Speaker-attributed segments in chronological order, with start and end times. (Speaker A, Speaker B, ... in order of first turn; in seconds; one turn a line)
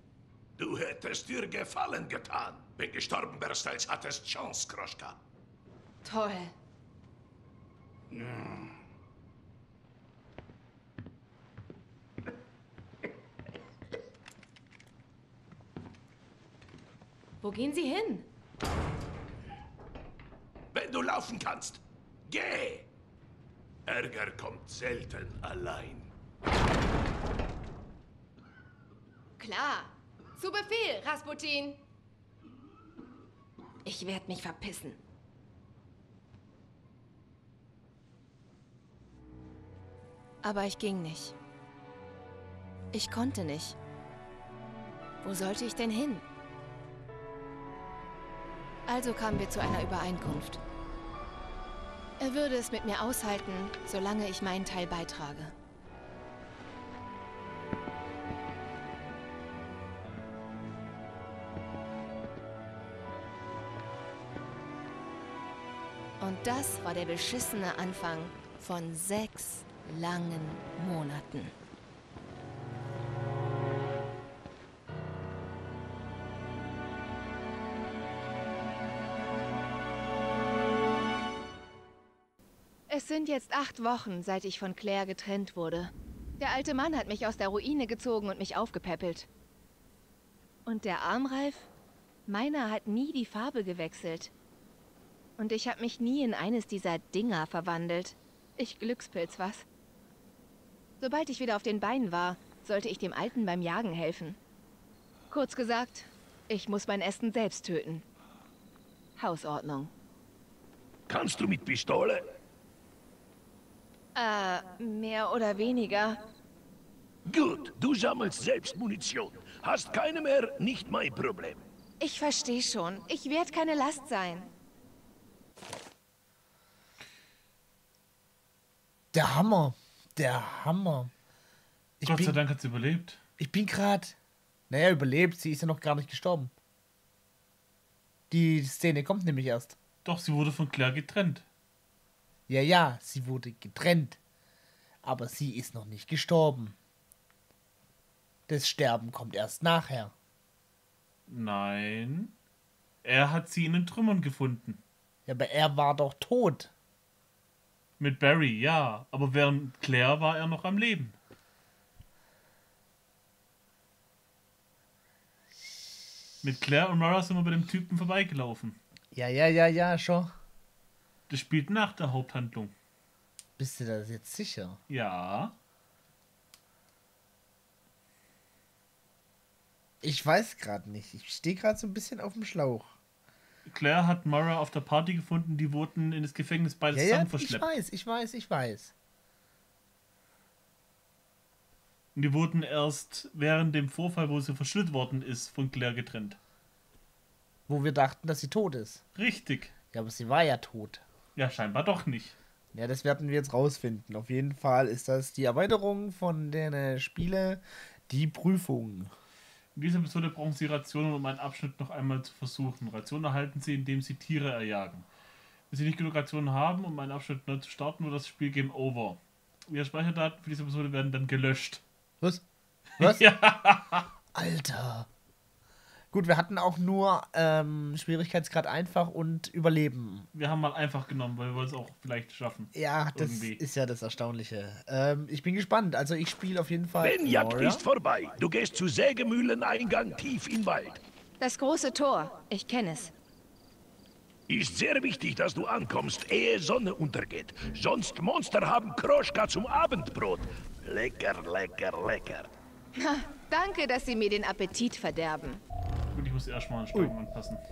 Speaker A: 0.6-5.2
Speaker B: 6.0-6.5
Speaker A: 8.2-8.5
Speaker B: 17.4-18.3
Speaker A: 20.7-22.9
Speaker A: 23.9-26.1
Speaker B: 29.4-31.8
Speaker B: 33.8-35.0
Speaker B: 40.4-41.4
Speaker B: 42.9-43.8
Speaker B: 45.2-46.2
Speaker B: 48.9-50.6
Speaker B: 52.2-55.5
Speaker B: 66.2-71.5
Speaker B: 82.9-89.3
Speaker B: 90.7-91.7
Speaker B: 92.3-94.3
Speaker B: 95.4-99.6
Speaker B: 101.0-104.4
Speaker B: 105.3-108.0
Speaker B: 109.2-109.9
Speaker A: 111.1-112.3
Speaker B: 114.1-116.2
Speaker A: 117.2-121.6
Speaker B: 122.0-124.5
Speaker C: 129.1-131.1
Speaker C: 132.0-132.4
Speaker D: 132.0-133.2
Speaker C: 133.4-134.2
Speaker C: 134.7-136.5
Speaker C: 138.3-139.8
Speaker D: 140.0-141.4
Speaker C: 142.5-144.2
Speaker C: 145.0-146.8
Speaker C: 148.5-150.1
Speaker D: 151.3-152.3
Speaker D: 153.0-154.8
Speaker C: 155.2-156.7
Speaker D: 158.0-161.2
Speaker D: 166.4-168.8
Speaker C: 169.1-170.3
Speaker D: 171.3-172.7
Speaker C: 173.6-174.8
Speaker D: 174.9-175.5
Speaker C: 180.0-182.9
Speaker D: 183.7-187.8
Speaker C: 186.9-188.9
Speaker D: 192.1-196.4
Speaker C: 197.7-199.0
Speaker D: 199.2-199.7
Speaker C: 199.9-201.0
Speaker D: 201.3-202.3
Speaker C: 202.7-209.1
Speaker D: 209.7-215.1
Speaker D: 215.7-221.8
Speaker C: 223.0-223.3
Speaker D: 223.0-224.1
Speaker C: 224.3-225.1
Speaker C: 226.1-230.3
Speaker D: 230.3-233.6
Speaker C: 232.7-237.8
Speaker A: 237.0-241.0
Speaker B: 241.4-243.1
Speaker A: 244.5-252.5
Speaker B: 252.9-255.6
Speaker D: 256.1-257.6